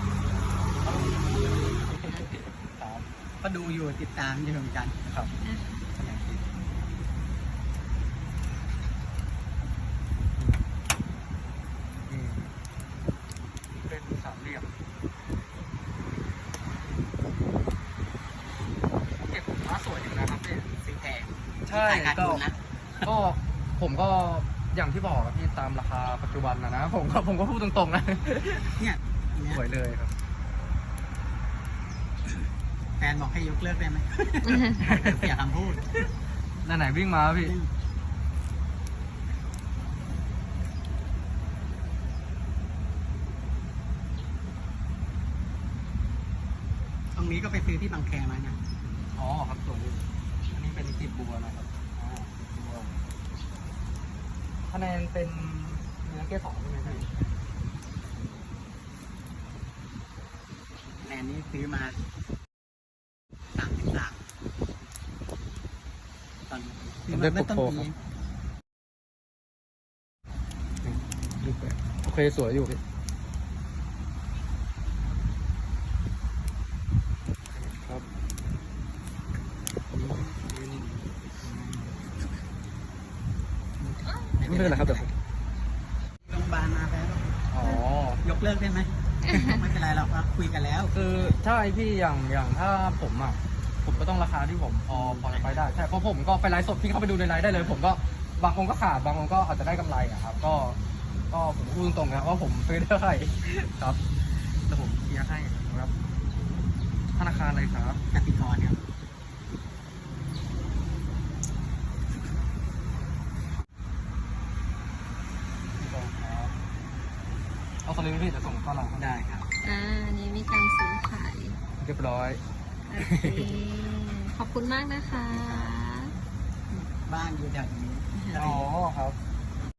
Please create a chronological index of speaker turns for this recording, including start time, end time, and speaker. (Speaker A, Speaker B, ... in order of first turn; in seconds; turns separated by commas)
Speaker A: 1.9-3.0, Speaker B: 3.4-5.0, Speaker A: 5.1-5.3, Speaker C: 5.4-5.9, Speaker B: 6.0-6.4, Speaker A: 12.1-12.5, Speaker A: 13.7-14.7, Speaker A: 19.2-20.7, Speaker B: 20.7-22.6, Speaker A: 21.7-22.4, Speaker A: 23.0-28.8, Speaker B: 28.8-29.6, Speaker A: 29.5-30.1, Speaker B: 33.0-35.9, Speaker C: 34.5-34.8, Speaker A: 34.8-35.3, Speaker A: 36.6-37.5, Speaker B: 37.4-37.7, Speaker B: 47.1-48.6, Speaker A: 49.1-53.0, Speaker A: 54.7-57.1, Speaker B: 56.8-57.3, Speaker B: 61.0-62.0, Speaker B: 63.5-64.2, Speaker B: 66.5-68.0, Speaker A: 67.1-67.9, Speaker A: 70.8-72.8, Speaker A: 77.5-78.1, Speaker A: 79.9-82.0, Speaker C: 84.1-84.3, Speaker B: 84.4-85.1, Speaker A: 84.5-85.1, Speaker B: 86.3-91.3, Speaker A: 87.5-88.2, Speaker C: 89.3-89.7, Speaker A: 90.9-100.8, Speaker B: 94.9-95.7, Speaker A: 101.3-105.9, Speaker A: 107.2-108.0, Speaker B: 108.1-108.8, Speaker A: 115.8-116.5, Speaker A: 117.8-119.1, Speaker B: 119.0-119.5, Speaker C: 119.6-121.6, Speaker A: 121.8-122.4, Speaker C: 122.9-126.2, Speaker A: 123.0-123.6, Speaker B: 125.2-125.7, Speaker B: 126.7-128.7, Speaker C: 128.2-128.4, Speaker A: 128.4-129.2